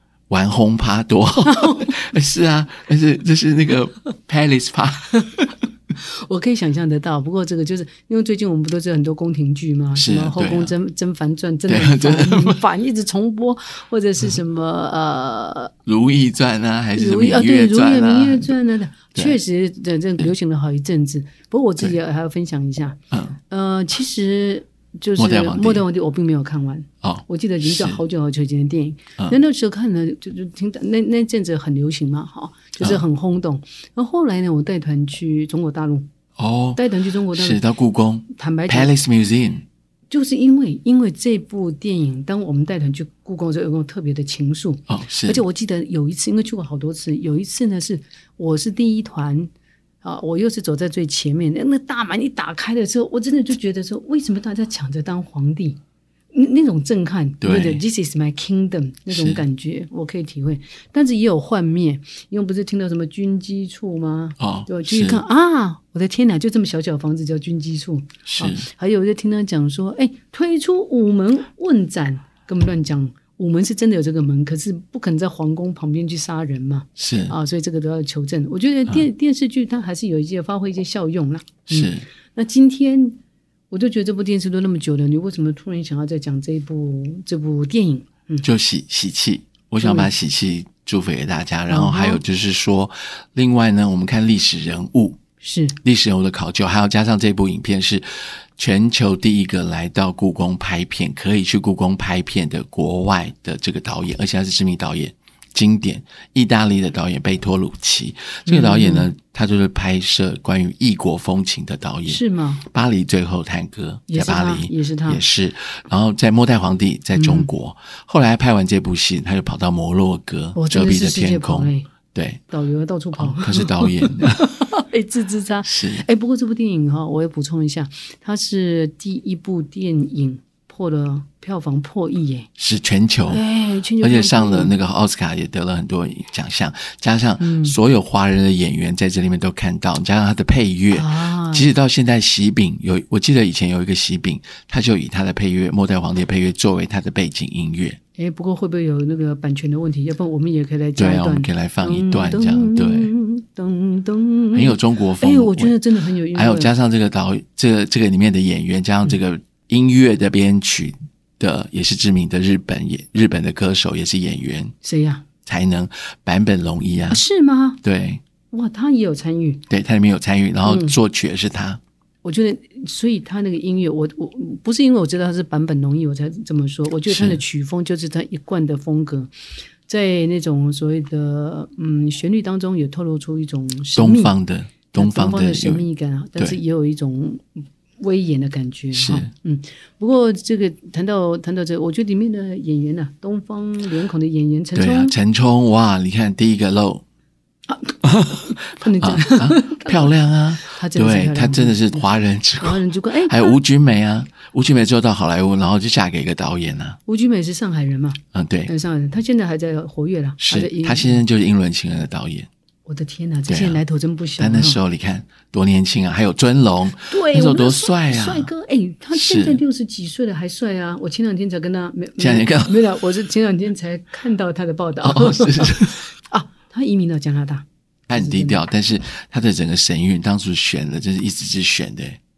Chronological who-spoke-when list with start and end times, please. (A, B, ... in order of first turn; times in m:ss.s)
0:00.3-0:05.5 A
0:01.4-0:01.9 B
0:06.0-0:15.7 B
0:10.0-0:10.7 A
0:11.7-0:12.6 A
0:15.8-0:18.5 A
0:17.0-0:23.0 B
0:23.1-0:23.4 A
0:23.5-0:36.1 B
0:25.2-0:25.8 A
0:27.0-0:28.0 A
0:36.4-0:39.6 A
0:36.8-0:37.6 B
0:38.3-0:38.9 B
0:40.1-0:49.5 B
0:44.9-0:45.4 A
0:50.0-0:55.8 B
0:56.3-1:28.4 B
0:57.4-0:57.8 A
0:59.1-0:59.4 A
1:04.4-1:05.2 A
1:08.2-1:08.6 A
1:17.0-1:17.3 A
1:21.7-1:22.0 A
1:28.4-1:35.2 A
1:29.8-1:30.1 B
1:31.7-1:32.2 B
1:35.4-1:35.8 B
1:35.8-2:02.4 A
1:48.5-1:49.1 B
1:52.1-1:52.6 B
1:54.1-1:55.2 B
1:57.1-1:57.5 B
2:00.5-2:01.9 B
2:02.5-2:12.5 B
2:03.1-2:04.4 A
2:05.6-2:06.0 A
2:12.6-2:13.4 A
2:13.3-2:14.8 B
2:14.0-2:28.0 A
2:17.4-2:17.8 B
2:20.9-2:21.7 B
2:28.2-2:36.7 B
2:31.0-2:33.1 A
2:34.5-2:35.8 A
2:36.3-2:44.7 A
2:44.8-2:45.2 B
2:45.4-2:47.2 A
2:47.1-2:47.8 B
2:47.8-2:48.2 A
2:48.5-2:49.6 B
2:49.7-2:51.8 A
2:50.6-2:51.0 B
2:52.2-2:59.3 B
2:57.1-2:57.4 A
2:59.9-3:04.3 B
3:03.9-3:05.8 A
3:04.9-3:15.2 B
3:08.9-3:09.3 A
3:14.7-3:17.0 A
3:17.7-3:20.1 B
3:18.2-3:27.0 A
3:20.7-3:22.0 B
3:22.6-3:23.6 B
3:27.1-3:31.2 B
3:28.3-3:28.7 A
3:30.4-3:32.5 A
3:32.8-3:34.8 B
3:33.5-3:33.8 A
3:34.4-3:38.5 A
3:37.1-3:48.6 B
3:39.1-3:39.6 A
3:42.2-3:42.8 A
3:45.0-3:46.1 A
3:48.1-3:52.2 A